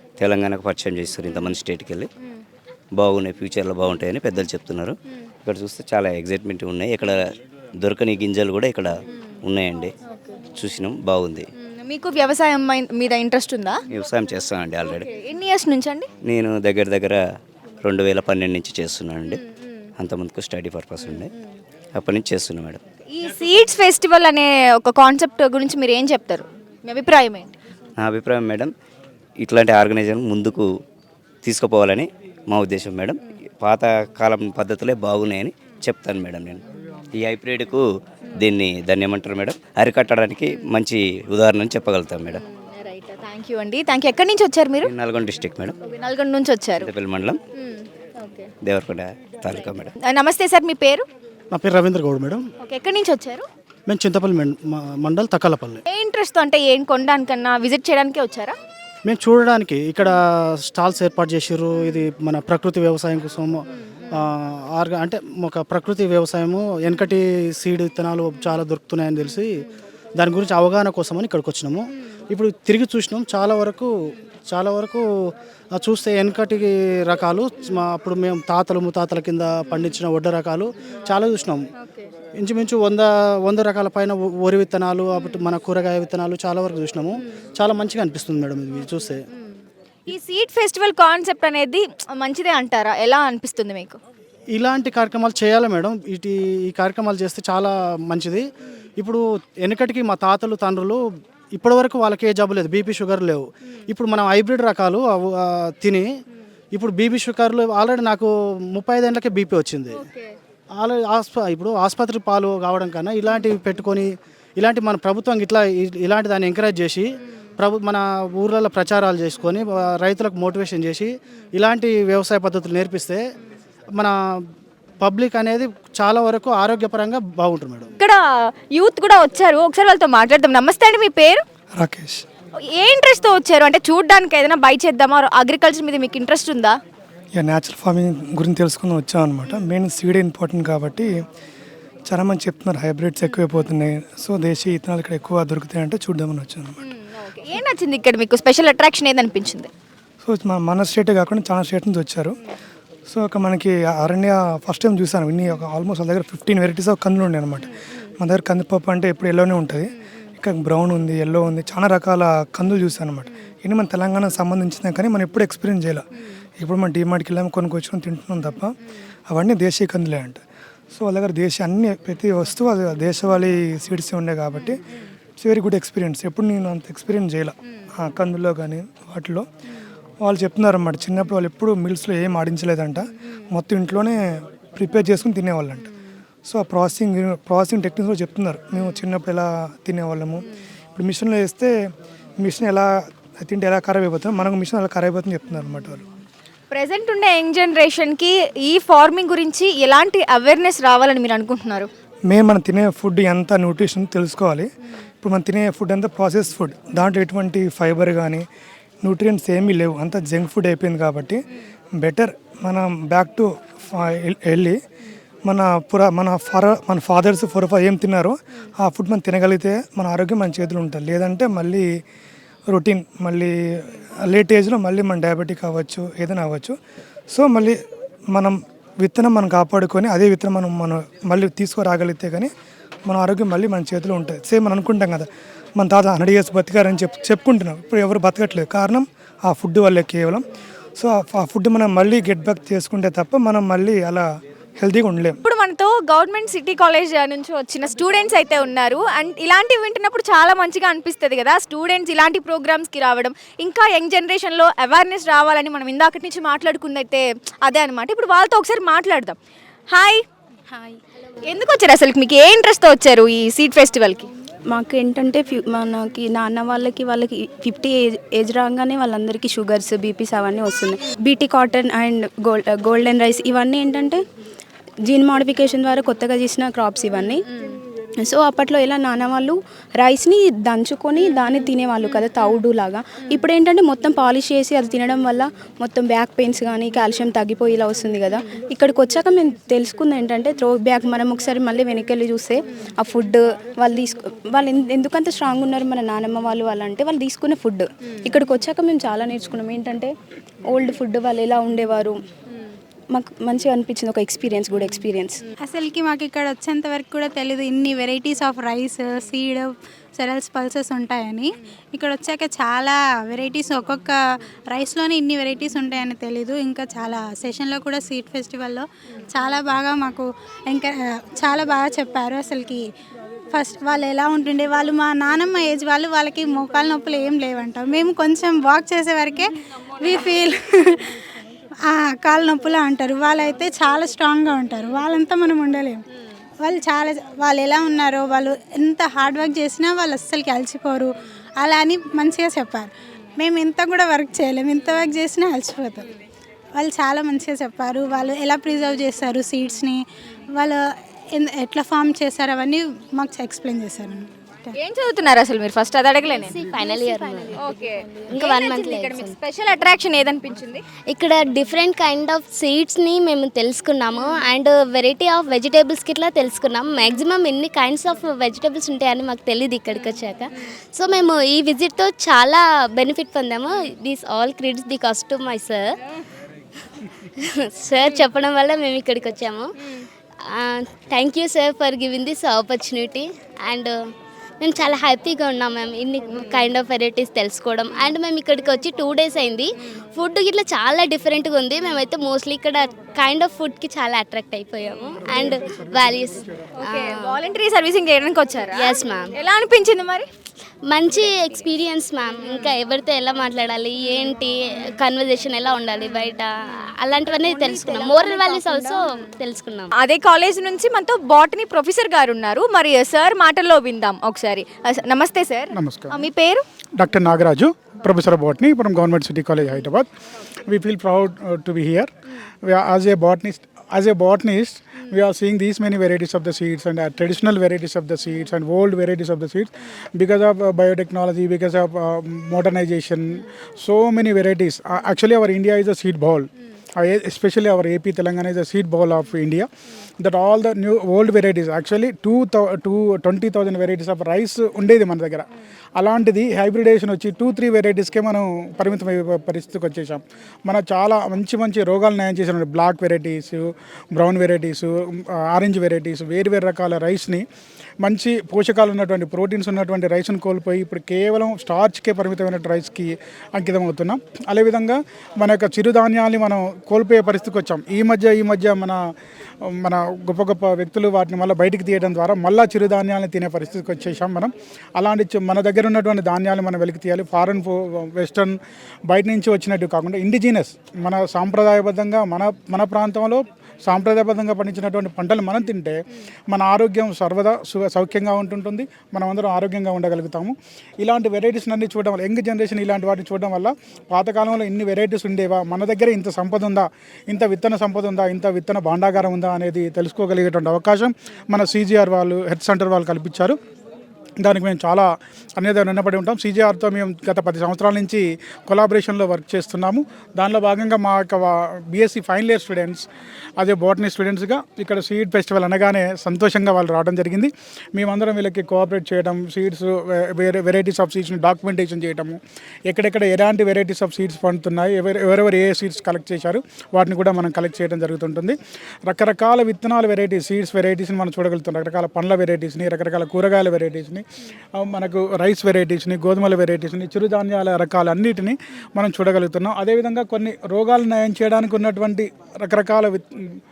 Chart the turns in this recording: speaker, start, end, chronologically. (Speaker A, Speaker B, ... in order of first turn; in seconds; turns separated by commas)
Speaker A: 0.2-2.1, Speaker A: 3.0-7.2, Speaker A: 7.8-8.9, Speaker A: 9.4-9.9, Speaker A: 10.6-11.4, Speaker B: 11.6-13.8, Speaker A: 13.9-15.0, Speaker B: 14.8-16.1, Speaker A: 16.2-17.2, Speaker A: 17.8-19.4, Speaker A: 20.0-21.3, Speaker A: 22.0-22.8, Speaker B: 23.1-27.5, Speaker A: 28.0-28.7, Speaker A: 29.4-30.6, Speaker A: 31.4-36.6, Speaker A: 37.1-37.8, Speaker A: 38.4-42.4, Speaker B: 42.6-44.9, Speaker A: 44.8-45.8, Speaker B: 45.9-46.9, Speaker A: 46.8-47.4, Speaker B: 47.6-48.5, Speaker A: 48.6-49.9, Speaker B: 50.0-51.0, Speaker C: 51.5-52.4, Speaker B: 52.6-53.5, Speaker C: 53.9-55.8, Speaker B: 55.9-58.5, Speaker C: 59.1-60.1, Speaker C: 60.6-69.5, Speaker C: 70.2-73.9, Speaker C: 74.5-75.0, Speaker C: 75.8-81.6, Speaker C: 82.4-89.2, Speaker B: 90.1-94.0, Speaker C: 94.5-98.4, Speaker C: 99.0-101.0, Speaker C: 101.5-106.1, Speaker C: 106.7-110.0, Speaker B: 109.9-110.3, Speaker C: 110.8-117.0, Speaker C: 117.6-123.2, Speaker C: 125.0-127.9, Speaker B: 128.0-131.4, Speaker D: 131.8-132.2, Speaker B: 132.7-136.8, Speaker D: 137.3-141.1, Speaker D: 142.1-146.8, Speaker B: 146.8-149.7, Speaker D: 150.2-152.4, Speaker D: 153.1-166.1, Speaker D: 166.6-168.7, Speaker D: 169.3-170.4, Speaker D: 170.9-174.8, Speaker D: 175.4-179.4, Speaker D: 180.2-185.9, Speaker D: 186.4-191.7, Speaker D: 192.4-192.9, Speaker D: 193.4-196.1, Speaker B: 196.7-201.9, Speaker D: 202.3-204.7, Speaker D: 205.2-208.4, Speaker D: 209.0-211.4, Speaker D: 212.0-214.8, Speaker D: 215.4-221.8, Speaker D: 222.7-226.7, Speaker D: 227.3-227.8, Speaker D: 228.3-232.5, Speaker D: 233.1-240.4, Speaker D: 241.0-244.2, Speaker D: 244.8-245.4, Speaker B: 245.4-259.4, Speaker B: 259.9-260.2, Speaker B: 261.4-264.3, Speaker E: 264.7-274.2, Speaker E: 275.1-277.4, Speaker E: 278.2-300.1, Speaker E: 300.7-302.1, Speaker E: 303.1-305.4, Speaker F: 305.6-314.2, Speaker F: 314.7-322.8, Speaker F: 323.5-331.1, Speaker F: 331.9-336.0, Speaker F: 336.6-346.1, Speaker F: 346.7-350.0, Speaker F: 350.5-350.8, Speaker F: 351.3-354.7, Speaker B: 354.7-356.6, Speaker G: 356.4-357.6, Speaker B: 357.5-360.8, Speaker G: 358.3-359.3, Speaker G: 361.1-375.9, Speaker G: 377.4-379.7, Speaker G: 380.5-383.9, Speaker G: 384.6-397.4, Speaker B: 396.8-400.3, Speaker G: 398.8-399.3, Speaker G: 400.9-409.9, Speaker B: 410.0-416.6, Speaker H: 415.7-416.2, Speaker H: 417.0-420.1, Speaker H: 420.7-422.1, Speaker H: 422.6-439.7, Speaker H: 440.2-445.4, Speaker H: 446.0-457.4, Speaker H: 458.0-469.0, Speaker H: 469.8-478.5, Speaker H: 479.1-485.9, Speaker H: 486.5-503.6, Speaker H: 504.4-505.1, Speaker H: 505.6-513.0, Speaker H: 513.6-528.5, Speaker H: 529.1-534.2, Speaker H: 534.8-543.2